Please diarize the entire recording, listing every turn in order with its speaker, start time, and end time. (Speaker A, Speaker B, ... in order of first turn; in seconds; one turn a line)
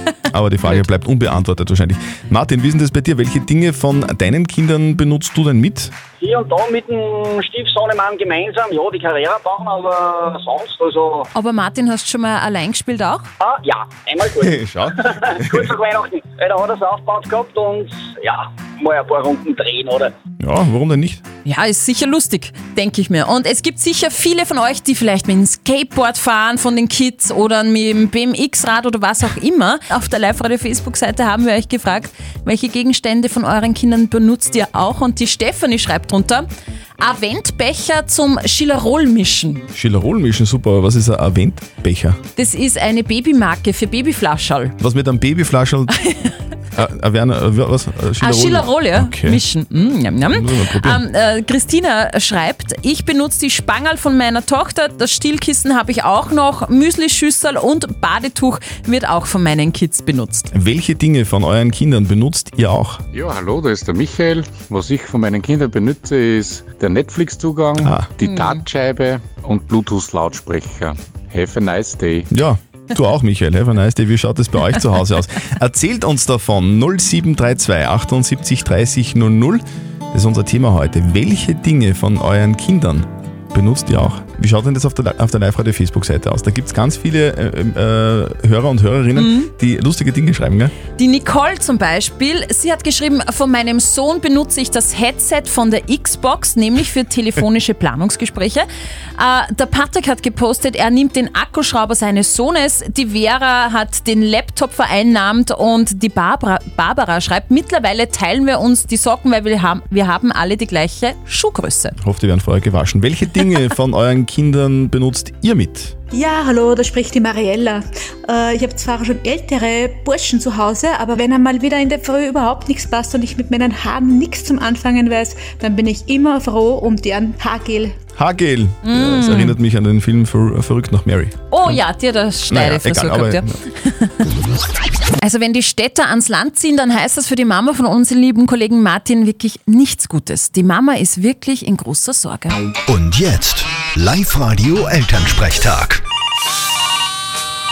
Speaker A: 0.3-5.9
Speaker B: 6.2-11.3
Speaker C: 11.3-13.3
Speaker B: 13.4-20.1
Speaker A: 14.4-15.7
Speaker A: 20.4-21.2
Speaker C: 21.4-36.5
Speaker C: 37.0-39.6
Speaker A: 39.7-42.2
Speaker C: 42.4-44.7
Speaker A: 44.8-45.9
Speaker C: 46.0-46.3
Speaker A: 46.7-49.4
Speaker C: 48.2-60.5
Speaker A: 50.3-51.0
Speaker A: 60.5-63.0
Speaker D: 63.1-72.3
Speaker A: 67.8-68.1
Speaker C: 68.2-68.6
Speaker A: 72.3-90.7
Speaker C: 89.2-89.5
Speaker C: 91.0-112.0
Speaker A: 112.0-115.9
Speaker E: 116.1-127.9
Speaker A: 128.2-131.8
Speaker C: 128.8-129.6
Speaker C: 131.5-134.1
Speaker A: 132.5-133.5
Speaker C: 135.2-142.6
Speaker F: 142.9-145.9